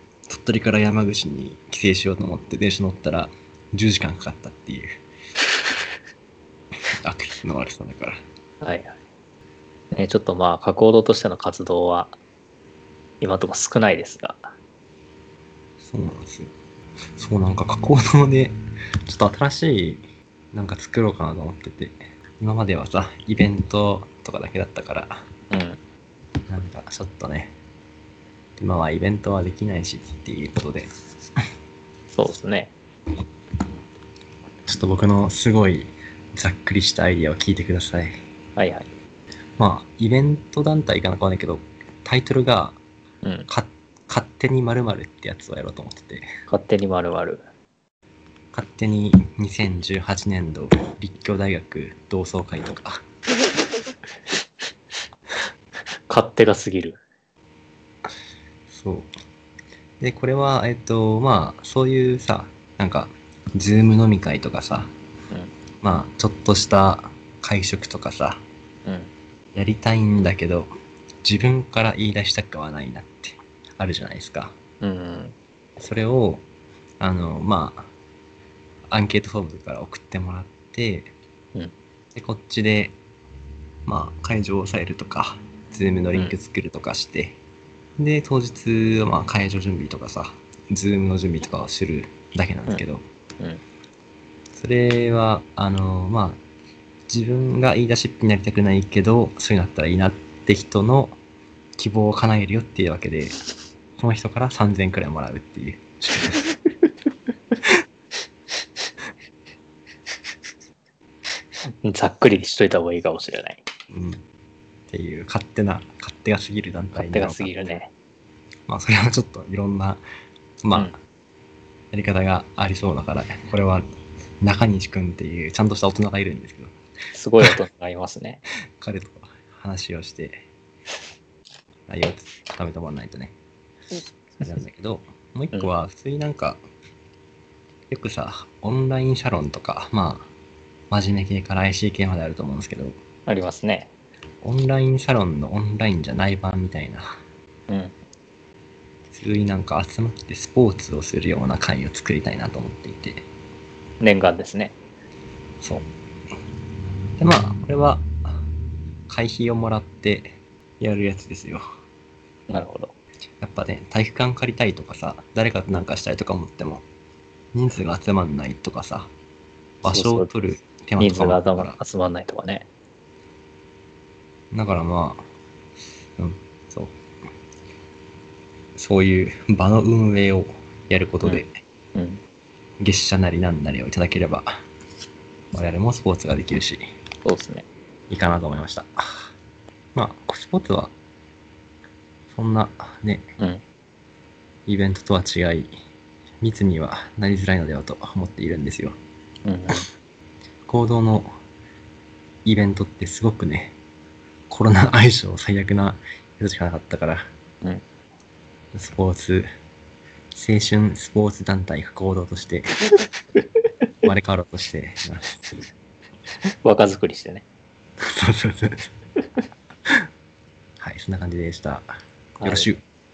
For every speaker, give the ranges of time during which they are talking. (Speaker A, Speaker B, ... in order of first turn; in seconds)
Speaker A: 0.3-4.9, 7.0-8.2, 15.8-16.5, 17.2-18.6, 19.1-25.2, 26.5-27.6, 28.6-30.9, 34.7-38.1, 39.6-42.8, 43.5-46.3, 48.5-53.0, 58.7-59.1, 60.0-64.9, 65.8-68.4, 69.5-70.7, 71.2-74.5, 75.8-76.4, 77.0-77.9, 78.9-81.1, 82.2-83.0, 83.9-87.4, 88.0-93.0, 94.5-96.4, 97.1-101.2, 101.8-103.4, 104.0-106.5, 113.9-114.2, 114.9-117.5, 118.7-120.0, 120.6-121.0, 121.9-123.8, 124.4-126.7, 128.8-130.4, 131.9-133.3, 134.4-136.6, 137.9-140.3, 140.9-143.0, 144.4-147.2, 149.1-153.2, 155.6-155.9, 157.2-158.4, 159.1-161.6, 163.4-166.8, 167.5-169.1, 169.8-171.8, 174.5-175.2, 176.2-176.9, 178.8-181.6, 182.8-184.5, 185.5-186.8, 188.1-189.3, 189.9-190.9, 192.3-193.3, 194.7-195.7, 196.4-198.9, 200.7-201.3, 202.4-203.8, 204.5-207.3, 208.7-209.5, 210.3-212.7, 214.1-215.5, 218.2-218.9, 220.8-221.9, 222.4-222.8
Speaker B: 8.6-8.9, 9.9-12.2, 13.2-14.5, 25.5-25.8, 32.1-32.7, 38.6-38.9, 43.2-43.5, 46.5-47.4, 56.1-57.0, 68.8-69.1, 74.8-75.4, 111.8-113.6, 117.0-117.9, 127.1-128.4, 143.3-143.9, 147.7-147.9, 154.0-154.8, 162.5-162.9, 169.9-170.3, 171.0-172.7, 181.9-182.2, 187.2-187.7, 199.4-199.9, 216.6-217.5, 222.4-222.7